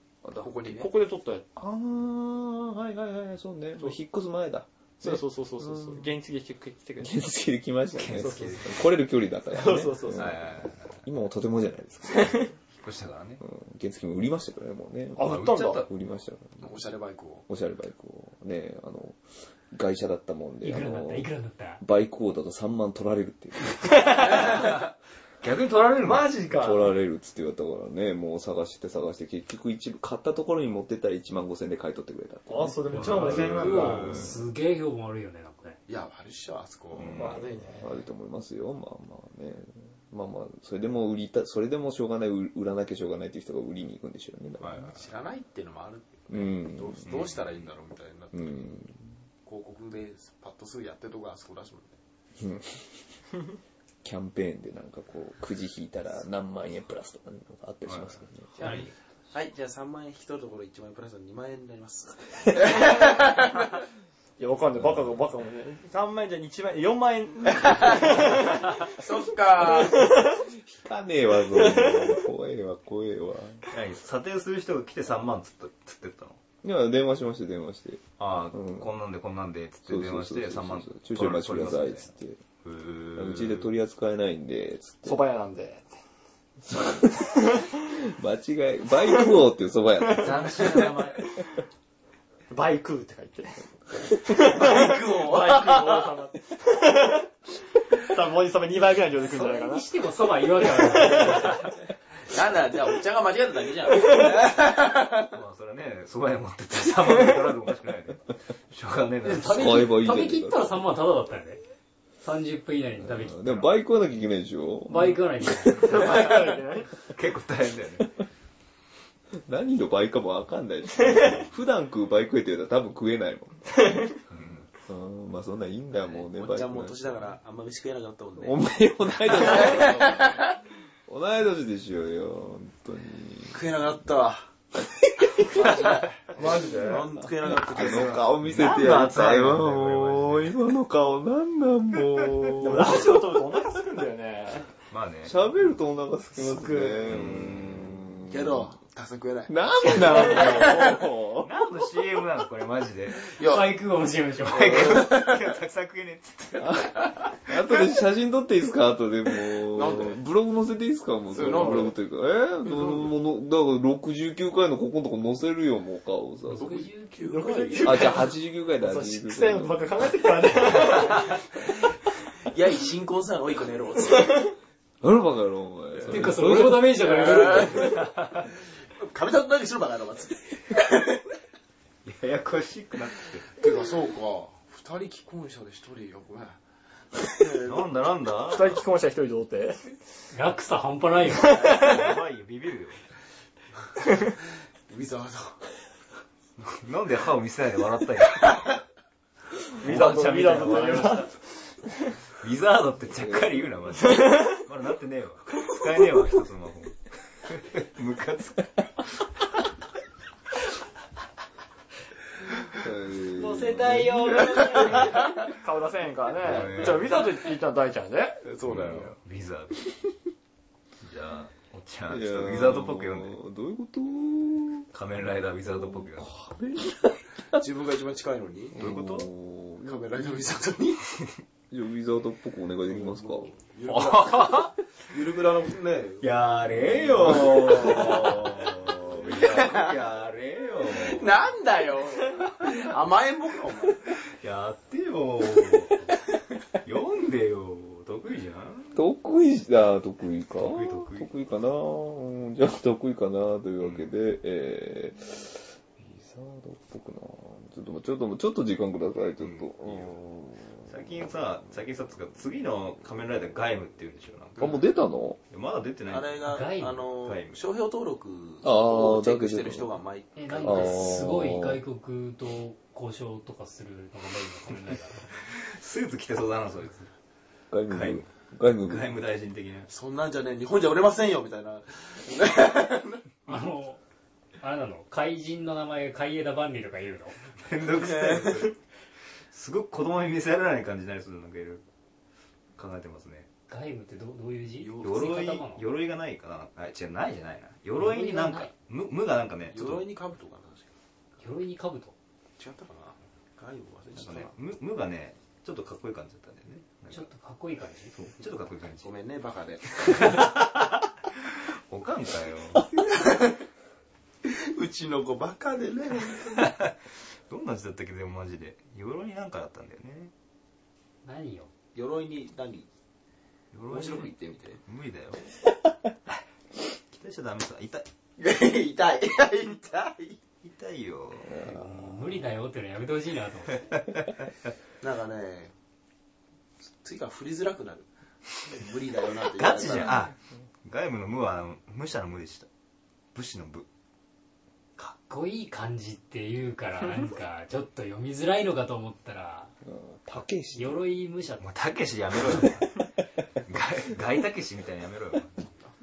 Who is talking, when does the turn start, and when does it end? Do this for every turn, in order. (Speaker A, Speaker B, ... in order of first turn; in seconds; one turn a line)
Speaker A: 0.2-0.5
Speaker B: 0.4-0.9
Speaker C: 0.6-1.4
Speaker A: 1.6-6.1
Speaker C: 5.0-7.2
Speaker A: 7.0-12.5
Speaker D: 7.9-8.8
Speaker C: 8.1-8.6
Speaker C: 9.5-10.4
Speaker D: 10.1-11.0
Speaker C: 12.1-12.5
Speaker D: 12.7-13.4
Speaker A: 13.4-16.8
Speaker C: 15.2-15.9
Speaker D: 15.2-15.9
Speaker B: 16.6-17.4
Speaker A: 17.5-19.2
Speaker A: 19.7-24.7
Speaker E: 20.6-21.8
Speaker C: 23.7-24.7
Speaker D: 24.3-24.9
Speaker D: 25.4-26.3
Speaker C: 26.0-26.9
Speaker A: 26.5-33.8
Speaker C: 32.5-34.3
Speaker E: 32.9-35.8
Speaker D: 33.0-34.4
Speaker B: 35.9-37.4
Speaker D: 37.0-37.4
Speaker A: 37.0-45.0
Speaker C: 37.1-38.0
Speaker D: 44.6-45.0
Speaker B: 44.9-48.5
Speaker A: 46.3-47.1
Speaker D: 47.0-47.7
Speaker A: 48.3-49.1
Speaker B: 49.4-52.0
Speaker A: 52.4-53.2
Speaker A: 54.0-58.5
Speaker D: 57.9-58.9
Speaker B: 58.5-63.8
Speaker C: 62.8-63.2
Speaker C: 64.4-69.0
Speaker A: 64.8-65.1
Speaker B: 68.3-70.1
Speaker C: 69.6-70.5
Speaker A: 70.3-73.7
Speaker C: 71.4-72.2
Speaker D: 73.7-76.4
Speaker A: 76.6-78.9
Speaker D: 78.2-82.1
Speaker A: 79.9-82.4
Speaker D: 82.6-83.7
Speaker A: 83.1-85.2
Speaker C: 85.0-85.9
Speaker A: 86.7-90.7
Speaker C: 87.5-87.7
Speaker C: 90.0-91.0
Speaker D: 90.2-91.3
Speaker C: 92.5-99.9
Speaker B: 94.4-96.1
Speaker E: 99.1-101.7
Speaker C: 100.6-101.8
Speaker B: 102.2-105.3
Speaker C: 103.9-104.5
Speaker D: 105.3-109.7
Speaker E: 109.2-111.6
Speaker A: 109.4-110.8
Speaker E: 112.2-113.7
Speaker A: 113.0-115.7
Speaker E: 114.9-116.1
Speaker C: 115.7-117.1
Speaker D: 117.0-118.1
Speaker A: 119.5-124.1
Speaker C: 121.0-121.4
Speaker C: 123.7-124.2
Speaker D: 124.3-124.7
Speaker A: 124.8-127.4
Speaker B: 126.0-128.6
Speaker A: 128.4-133.7
Speaker B: 129.2-130.6
Speaker B: 133.5-134.5
Speaker B: 135.2-139.0
Speaker D: 135.7-135.9
Speaker C: 136.3-137.2
Speaker A: 137.4-143.2
Speaker D: 137.9-140.6
Speaker C: 142.6-144.7
Speaker D: 144.9-145.4
Speaker A: 145.2-148.7
Speaker C: 146.3-147.1
Speaker D: 147.1-148.0
Speaker B: 148.3-151.0
Speaker A: 149.5-151.5
Speaker C: 150.3-150.6
Speaker D: 151.4-153.3
Speaker B: 153.3-153.7
Speaker E: 153.4-155.0
Speaker D: 154.5-156.9
Speaker B: 154.5-155.5
Speaker A: 156.6-166.8
Speaker B: 159.7-160.2
Speaker B: 161.3-162.0
Speaker B: 162.7-163.1
Speaker B: 166.5-168.1
Speaker E: 167.1-167.3
Speaker C: 167.3-171.4
Speaker A: 167.8-169.9
Speaker A: 170.6-170.9
Speaker B: 172.4-174.3
Speaker C: 174.1-174.5
Speaker A: 175.0-177.1
Speaker B: 176.0-181.2
Speaker E: 176.1-177.9
Speaker D: 177.6-178.5
Speaker D: 182.0-183.5
Speaker B: 183.5-186.6
Speaker B: 187.1-187.6
Speaker C: 187.4-187.8
Speaker D: 187.6-188.8
Speaker C: 188.4-189.9
Speaker E: 190.3-191.8
Speaker C: 191.3-192.1
Speaker D: 191.6-193.0
Speaker B: 194.2-195.6
Speaker D: 196.6-198.7
Speaker C: 199.8-201.3
Speaker D: 199.8-201.3
Speaker D: 202.3-209.1
Speaker A: 203.2-203.7
Speaker C: 204.2-204.5
Speaker A: 212.7-214.8
Speaker E: 213.3-215.2
Speaker C: 214.7-218.4
Speaker D: 216.4-217.2
Speaker A: 216.6-216.9
Speaker B: 218.4-219.1
Speaker D: 218.6-219.9
Speaker D: 221.0-223.4
Speaker A: 222.1-224.9
Speaker D: 224.9-226.3
Speaker A: 225.6-227.6
Speaker B: 227.5-228.8
Speaker A: 228.7-230.5
Speaker D: 228.8-229.3
Speaker B: 229.8-231.2
Speaker A: 231.7-233.5
Speaker B: 232.9-240.0
Speaker D: 233.8-234.7
Speaker D: 236.2-241.5
Speaker A: 236.7-237.9
Speaker B: 240.9-244.1
Speaker D: 244.4-246.1
Speaker D: 246.8-249.0
Speaker A: 248.9-261.1
Speaker D: 250.6-251.3
Speaker D: 253.8-254.1
Speaker D: 259.4-260.1
Speaker D: 260.8-264.8
Speaker A: 264.6-265.4
Speaker D: 265.5-266.4
Speaker B: 266.1-271.2
Speaker E: 266.4-267.1
Speaker D: 267.2-267.6
Speaker A: 268.6-269.9
Speaker E: 270.4-275.2
Speaker A: 270.6-271.8
Speaker D: 275.4-277.1
Speaker A: 277.7-279.1
Speaker D: 277.9-279.9
Speaker B: 279.9-283.4
Speaker E: 283.5-284.0
Speaker E: 284.6-287.4
Speaker D: 287.6-288.8
Speaker B: 287.9-288.7
Speaker D: 289.5-291.8
Speaker D: 292.8-293.5
Speaker E: 293.7-295.9
Speaker B: 294.8-295.4
Speaker D: 295.0-300.1
Speaker E: 298.0-298.7
Speaker B: 299.7-300.9
Speaker E: 301.4-302.1
Speaker B: 302.6-304.5
Speaker D: 304.1-307.3
Speaker E: 307.1-308.1
Speaker D: 308.2-309.1
Speaker B: 309.0-310.4
Speaker D: 310.0-312.9
Speaker B: 313.0-313.6
Speaker B: 314.4-316.7
Speaker D: 316.6-316.9
Speaker D: 317.5-320.3
Speaker E: 321.2-321.7
Speaker B: 321.9-322.9
Speaker D: 323.7-325.4
Speaker B: 323.9-324.8
Speaker D: 327.1-328.1
Speaker B: 328.4-330.4
Speaker D: 330.6-331.6
Speaker A: 331.5-332.2
Speaker E: 331.6-333.9
Speaker B: 335.0-335.7
Speaker B: 337.0-338.1
Speaker B: 338.6-340.3
Speaker D: 339.4-342.7
Speaker D: 343.3-343.9
Speaker E: 345.0-349.7
Speaker A: 349.8-351.0
Speaker E: 350.7-351.7
Speaker D: 351.6-352.9
Speaker D: 353.6-355.7